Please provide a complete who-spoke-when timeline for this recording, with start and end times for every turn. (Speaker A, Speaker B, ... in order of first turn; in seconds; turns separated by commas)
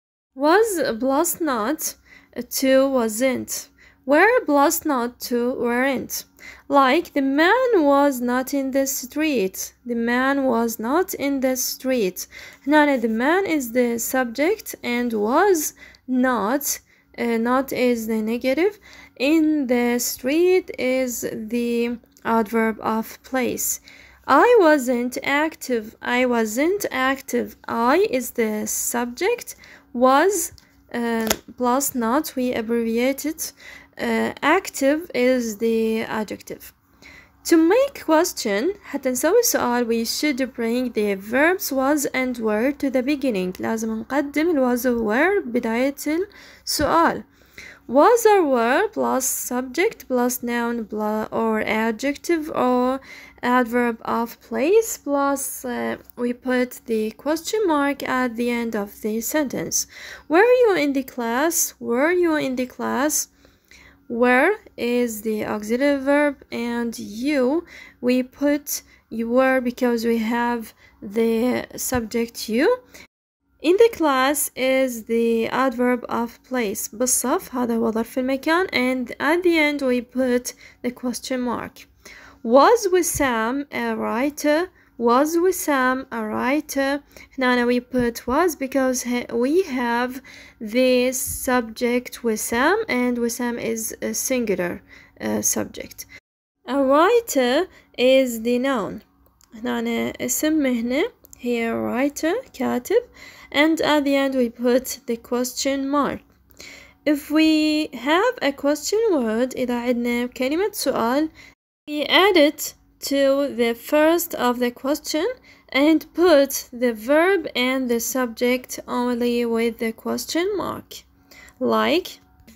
Speaker A: 0.4-36.7, Speaker A: 37.4-47.2, Speaker A: 47.9-63.3, Speaker A: 64.1-72.8, Speaker A: 73.6-81.9, Speaker A: 82.4-96.1, Speaker A: 96.7-106.2, Speaker A: 107.0-111.3, Speaker A: 111.9-121.1, Speaker A: 121.6-122.2